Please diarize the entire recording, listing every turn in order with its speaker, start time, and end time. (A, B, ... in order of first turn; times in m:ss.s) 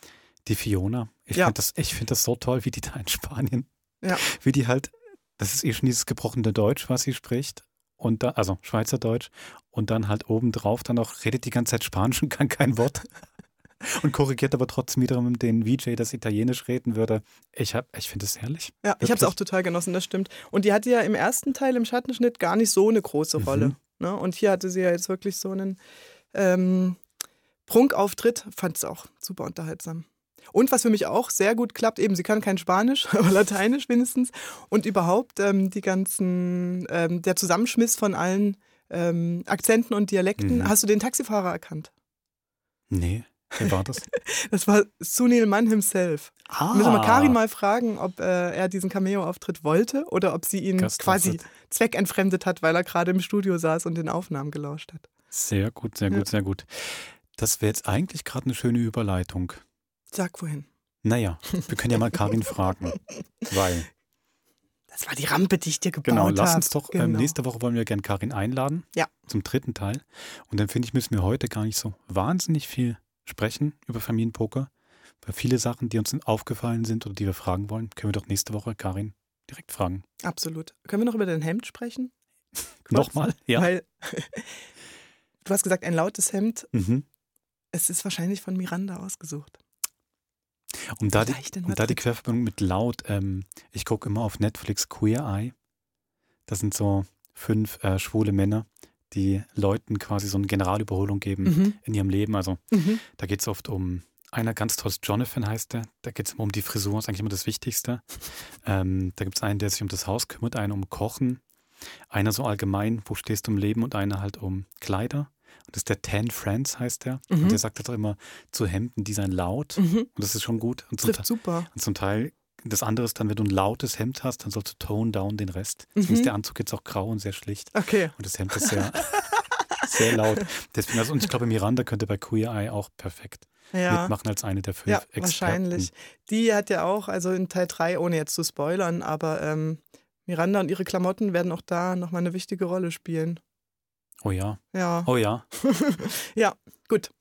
0:00.4-0:13.0 A
0:13.8-0:19.3 A
0:18.8-0:25.8 B
0:23.4-0:23.8 A
0:26.3-0:27.0 B
0:27.7-0:41.9 B
0:40.4-0:40.7 A
0:42.9-0:44.0 A
0:44.5-0:55.2 B
0:46.5-0:47.4 A
0:50.8-0:51.5 A
0:55.3-0:59.6 A
1:00.1-1:00.7 B
1:01.0-1:03.0 A
1:03.5-1:03.9 A
1:04.9-1:07.4 B
1:06.0-1:14.7 A
1:15.2-1:20.0 A
1:20.2-1:22.1 B
1:22.9-1:24.5 B
1:22.9-1:23.7 A
1:25.4-1:26.7 B
1:26.7-1:27.0 A
1:27.7-1:29.6 B
1:30.9-1:35.5 A
1:31.1-1:32.0 B
1:36.5-1:48.1 A
1:41.4-1:41.8 B
1:42.7-1:43.0 B
1:48.6-1:51.4 A
1:52.1-2:09.2 A
1:57.3-1:57.6 B
1:59.8-2:00.1 B
2:01.0-2:01.7 B
2:06.0-2:06.3 B
2:07.8-2:08.8 B
2:09.8-2:15.9 A
2:09.9-2:10.4 B
2:13.7-2:14.2 B
2:14.8-2:23.4 B
2:24.2-2:25.4 A
2:24.7-2:27.1 B